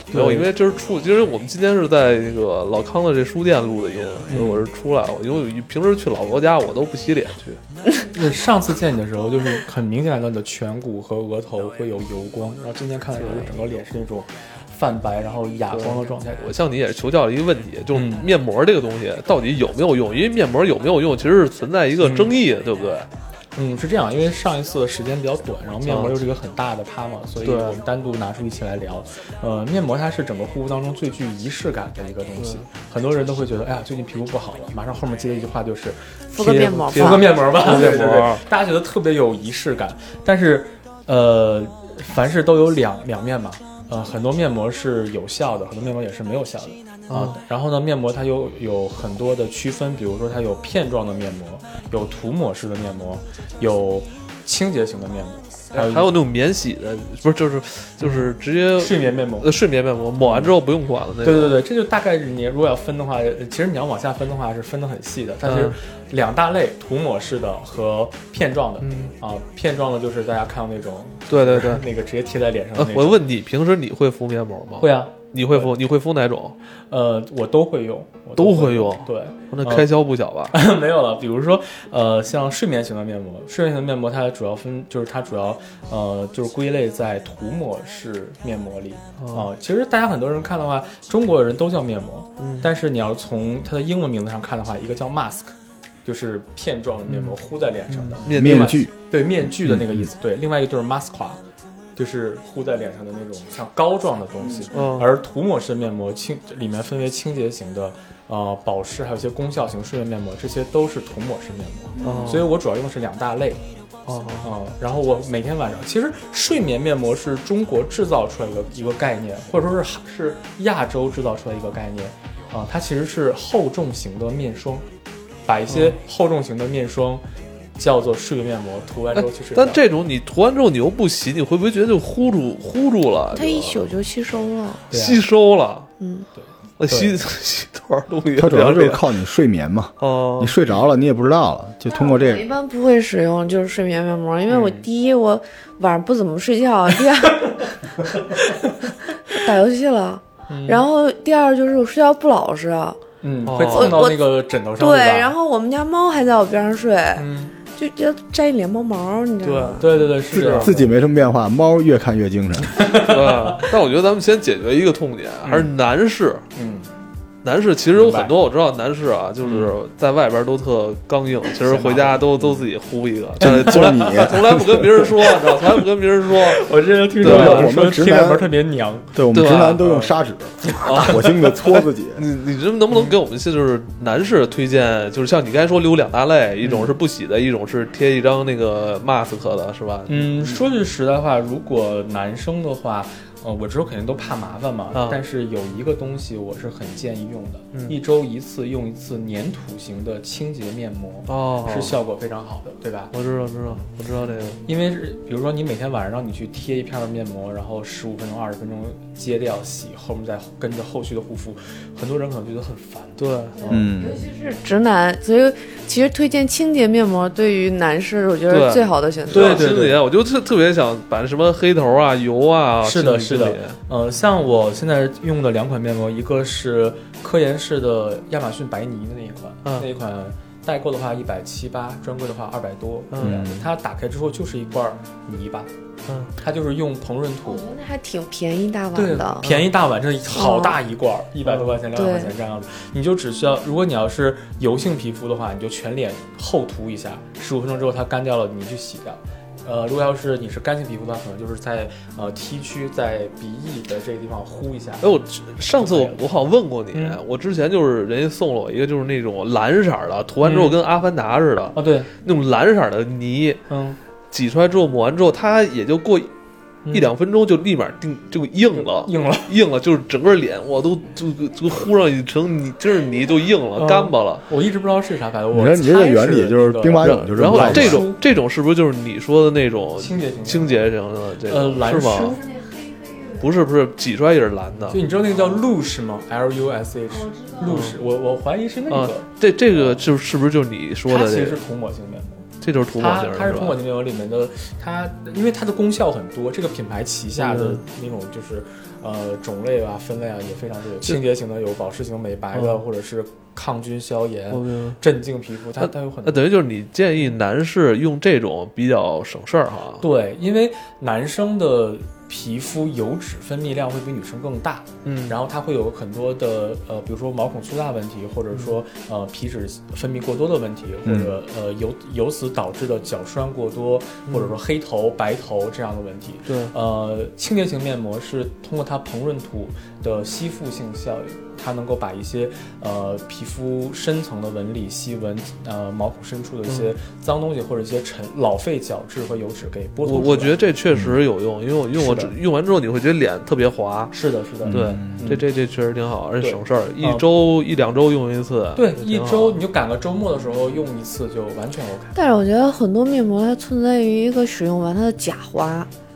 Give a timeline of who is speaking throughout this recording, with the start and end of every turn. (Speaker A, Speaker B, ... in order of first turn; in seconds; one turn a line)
Speaker A: 0.1-0.5
Speaker B: 0.1-7.6
Speaker A: 4.3-4.7
Speaker A: 8.1-16.5
Speaker B: 13.2-13.5
Speaker B: 15.7-23.1
Speaker A: 17.9-18.3
Speaker A: 22.0-22.3
Speaker A: 23.5-56.1
Speaker B: 25.8-26.1
Speaker B: 27.4-27.8
Speaker C: 36.3-37.6
Speaker B: 36.9-38.4
Speaker B: 47.1-47.4
Speaker B: 55.7-61.6
Speaker A: 58.0-59.5
Speaker A: 60.2-60.5
Speaker A: 61.2-73.2
Speaker B: 65.4-65.7
Speaker B: 68.8-69.1
Speaker B: 71.3-71.8
Speaker B: 72.8-76.5
Speaker A: 74.8-75.7
Speaker A: 76.9-79.9
Speaker B: 78.4-80.5
Speaker A: 80.5-95.5
Speaker B: 89.2-89.5
Speaker B: 92.4-92.7
Speaker A: 96.0-101.4
Speaker B: 97.1-97.3
Speaker B: 97.9-98.7
Speaker D: 98.3-98.9
Speaker D: 99.6-100.0
Speaker A: 102.0-113.6
Speaker B: 104.7-105.1
Speaker B: 112.0-112.5
Speaker B: 114.0-114.5
Speaker A: 114.4-124.8
Speaker A: 125.4-127.2
Speaker B: 125.7-126.0
Speaker A: 127.8-129.8
Speaker B: 129.1-133.9
Speaker C: 133.3-134.8
Speaker A: 134.9-135.2
Speaker B: 134.9-135.9
Speaker C: 136.0-136.3
Speaker A: 136.3-137.2
Speaker B: 136.8-139.0
Speaker D: 138.3-142.4
Speaker B: 140.0-140.5
Speaker C: 141.8-148.2
Speaker A: 144.5-144.8
Speaker C: 149.1-153.0
Speaker A: 150.5-150.8
Speaker A: 153.2-155.3
Speaker B: 153.4-154.0
Speaker C: 153.7-160.1
Speaker A: 157.2-157.5
Speaker A: 159.4-160.9
Speaker B: 160.3-160.7
Speaker D: 160.3-162.8
Speaker A: 162.6-163.5
Speaker B: 163.0-166.4
Speaker A: 165.4-165.7
Speaker A: 166.5-166.9
Speaker B: 167.4-177.7
Speaker A: 167.9-168.3
Speaker A: 169.4-169.7
Speaker A: 171.6-172.4
Speaker D: 173.4-175.1
Speaker A: 173.4-174.2
Speaker A: 176.3-179.1
Speaker D: 177.2-178.5
Speaker D: 179.1-182.2
Speaker B: 179.3-179.8
Speaker A: 179.8-180.2
Speaker A: 180.7-181.4
Speaker B: 180.8-190.6
Speaker A: 182.9-183.2
Speaker A: 186.6-186.9
Speaker A: 190.1-203.1
Speaker B: 194.9-195.2
Speaker B: 201.3-201.9
Speaker B: 203.1-204.6
Speaker A: 204.6-213.7
Speaker B: 213.2-213.6
Speaker C: 213.6-219.7
Speaker D: 213.7-214.2
Speaker B: 218.5-223.8
Speaker A: 219.3-220.0
Speaker A: 222.8-235.7
Speaker B: 233.1-233.4
Speaker D: 233.2-233.7
Speaker B: 236.1-236.3
Speaker A: 236.4-237.7
Speaker C: 237.4-239.4
Speaker A: 238.9-257.2
Speaker B: 239.4-239.7
Speaker C: 240.3-240.8
Speaker B: 241.4-241.7
Speaker C: 241.9-242.3
Speaker B: 255.0-263.6
Speaker A: 260.4-260.8
Speaker A: 261.7-262.1
Speaker A: 263.7-264.0
Speaker B: 264.3-266.3
Speaker A: 266.9-267.1
Speaker B: 266.9-274.4
Speaker A: 268.7-269.5
Speaker A: 273.8-278.2
Speaker D: 275.5-278.1
Speaker B: 277.0-282.4
Speaker A: 280.0-280.9
Speaker A: 281.4-282.4
Speaker C: 282.4-283.3
Speaker B: 283.4-285.0
Speaker A: 284.9-290.1
Speaker B: 287.6-287.9
Speaker B: 288.9-291.6
Speaker A: 291.1-306.5
Speaker B: 292.6-293.8
Speaker B: 297.3-297.9
Speaker B: 302.5-302.8
Speaker B: 304.5-305.0
Speaker B: 305.8-310.0
Speaker A: 310.0-340.6
Speaker B: 315.0-315.4
Speaker D: 321.0-321.3
Speaker B: 324.3-324.6
Speaker B: 326.5-326.7
Speaker B: 340.0-344.1
Speaker A: 341.9-342.3
Speaker A: 344.1-345.4
Speaker D: 344.6-345.2
Speaker B: 344.7-349.6
Speaker A: 346.4-347.3
Speaker A: 348.7-352.2
Speaker C: 352.1-355.9